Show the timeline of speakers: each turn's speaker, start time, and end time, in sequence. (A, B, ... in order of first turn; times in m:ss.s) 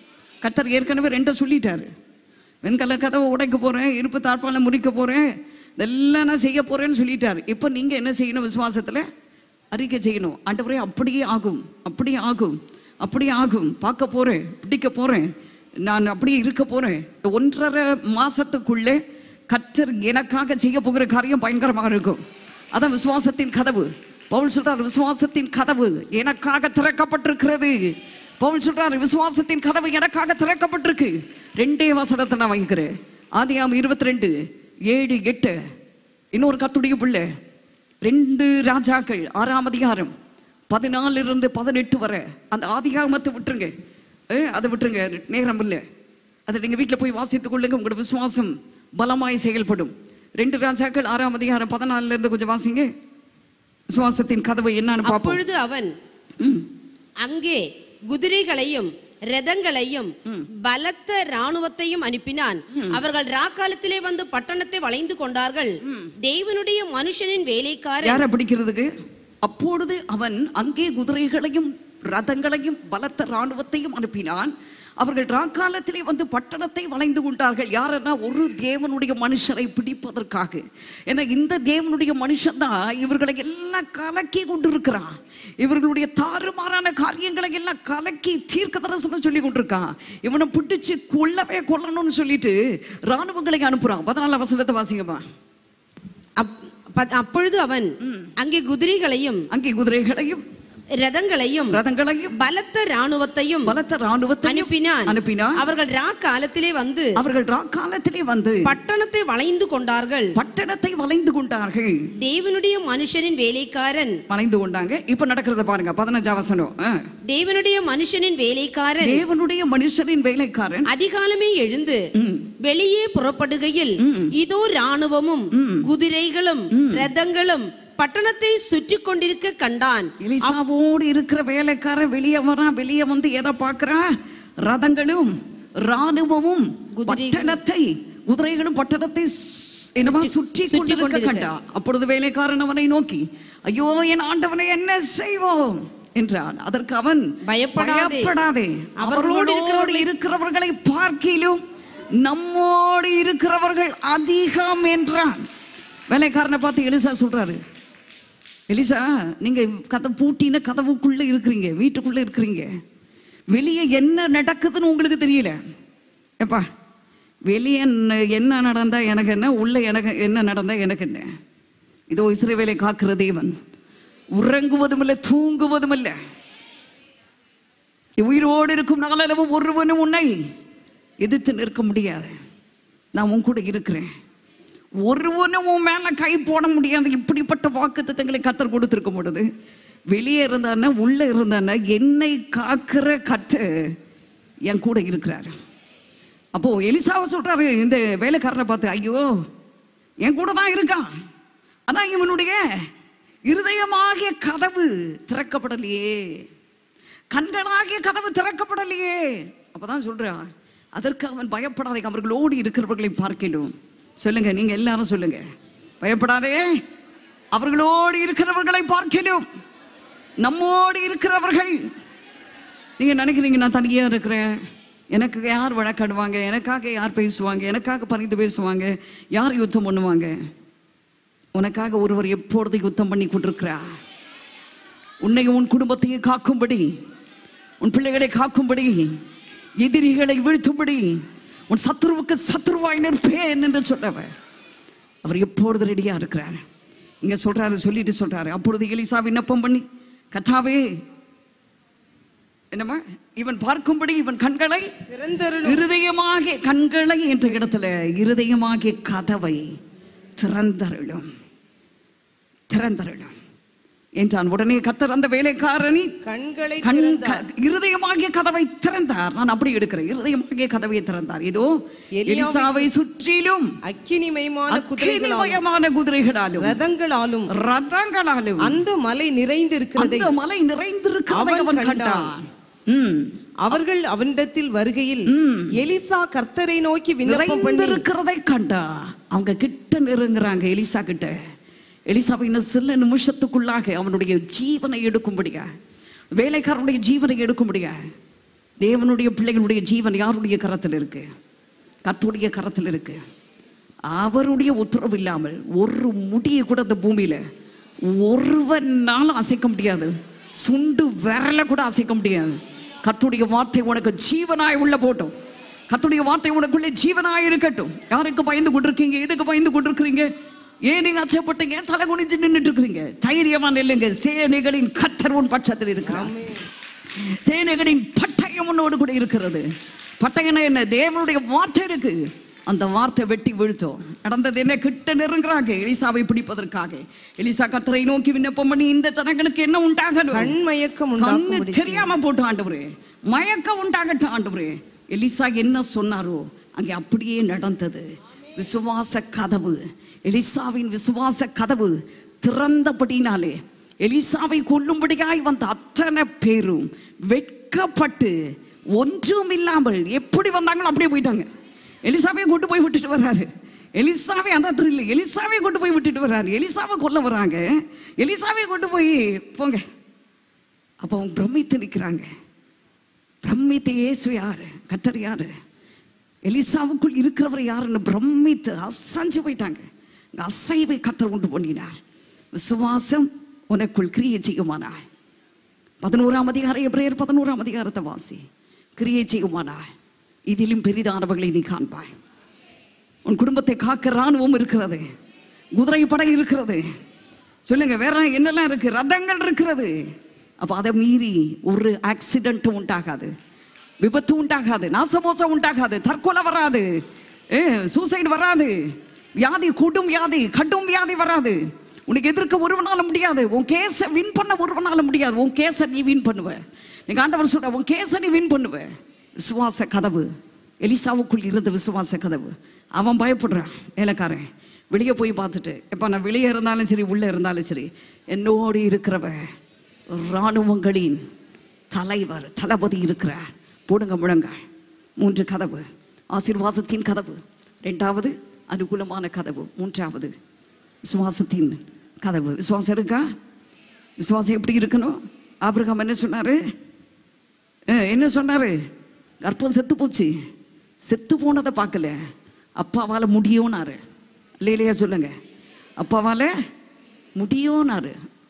0:00.4-0:01.9 A
0:02.6-0:05.2 A
0:05.8-0:09.1 A
0:09.7-0:15.3 A
0:15.8-0:22.2 A
0:22.7-0:34.4 A
0:34.9-0:35.6 A
0:36.3-0:37.2 A
0:38.0-0:40.1 A
0:40.7-0:43.7 A
0:44.3-0:45.8 A
0:46.5-0:52.9 A
0:53.9-0:55.4 A
0:55.0-0:55.9 B
0:56.4-0:56.7 A
0:57.2-1:05.7 B
1:02.7-1:03.0 A
1:05.8-1:06.1 A
1:06.2-1:08.2 B
1:08.0-1:08.9 A
1:09.4-1:32.6 A
1:33.1-1:35.2 A
1:36.4-1:37.9 B
1:38.0-1:38.3 A
1:38.4-1:39.4 B
1:39.5-1:40.4 A
1:41.0-1:41.8 B
1:41.7-1:42.4 A
1:42.4-1:43.7 B
1:43.6-1:45.6 A
1:44.4-1:47.1 B
1:47.2-1:48.7 A
1:48.6-1:50.3 B
1:50.4-1:52.1 A
1:52.2-1:54.2 B
1:54.3-1:57.0 A
1:57.3-1:59.2 B
1:59.0-2:00.9 A
2:00.9-2:02.0 B
2:02.2-2:02.5 A
2:02.6-2:10.5 B
2:04.0-2:04.3 A
2:05.5-2:05.9 A
2:06.7-2:07.1 A
2:10.2-2:14.0 A
2:14.6-2:31.6 A
2:17.0-2:17.6 B
2:20.0-2:21.5 B
2:27.5-2:28.3 B
2:29.0-2:30.0 B
2:32.2-2:35.4 A
2:36.1-2:37.6 A
2:38.7-2:42.7 A
2:43.5-2:45.6 A
2:47.5-2:51.3 A
2:52.1-2:53.5 A
2:54.4-2:56.2 A
2:58.2-3:00.4 A
3:01.2-3:02.3 A
3:03.2-3:04.1 A
3:05.0-3:09.4 A
3:10.1-3:13.6 A
3:14.7-3:15.5 A
3:16.5-3:19.3 A
3:20.2-3:21.1 A
3:21.9-3:22.8 A
3:23.5-3:26.4 A
3:27.3-3:35.4 A
3:36.0-3:36.8 A
3:37.5-3:39.4 A
3:40.4-3:41.8 A
3:43.0-3:44.6 A
3:45.1-3:50.3 A
3:51.6-3:53.8 A
3:55.2-3:56.9 A
3:57.8-3:59.1 A
3:59.8-4:04.3 A
4:05.2-4:06.6 A
4:07.2-4:11.0 A
4:12.7-4:14.9 A
4:15.1-4:15.8 C
4:15.6-4:19.6 A
4:20.4-4:21.2 A
4:22.7-4:23.3 A
4:24.2-4:26.1 A
4:26.2-4:27.4 C
4:26.8-4:33.7 A
4:32.2-4:32.9 C
4:33.8-4:35.6 C
4:34.7-4:36.8 A
4:36.6-4:37.5 C
4:37.5-4:38.8 A
4:38.6-4:40.3 C
4:40.0-4:43.3 A
4:41.3-4:42.3 C
4:43.6-4:48.0 C
4:45.3-4:45.8 A
4:47.2-4:51.4 A
4:52.1-4:55.7 A
4:56.4-4:58.0 A
4:58.8-5:01.2 A
5:02.0-5:03.2 A
5:04.1-5:07.4 A
5:08.1-5:15.3 A
5:15.9-5:20.3 A
5:20.9-5:26.4 A
5:26.1-5:26.5 C
5:27.2-5:29.6 A
5:30.2-5:40.5 A
5:40.3-5:42.1 C
5:41.2-5:58.3 A
5:58.9-6:01.5 A
6:02.0-6:09.8 A
6:11.0-6:12.3 A
6:13.4-6:15.5 A
6:16.4-6:19.8 A
6:20.4-6:22.0 A
6:22.6-6:25.0 A
6:26.0-6:28.4 A
6:29.0-6:29.9 A
6:30.5-6:32.1 A
6:33.2-6:35.0 A
6:35.8-6:36.8 A
6:37.7-6:39.9 A
6:40.6-6:43.3 A
6:44.0-6:46.9 A
6:47.5-6:48.9 A
6:49.4-7:00.3 A
7:00.8-7:09.4 A
7:10.1-7:11.2 A
7:11.9-7:14.6 A
7:15.2-7:20.3 A
7:21.0-7:23.2 A
7:24.2-7:26.6 A
7:27.9-7:28.8 A
7:29.4-7:30.3 A
7:31.0-7:32.2 A
7:32.8-7:34.0 A
7:34.6-7:35.3 A
7:36.0-7:36.5 A
7:37.4-7:38.1 A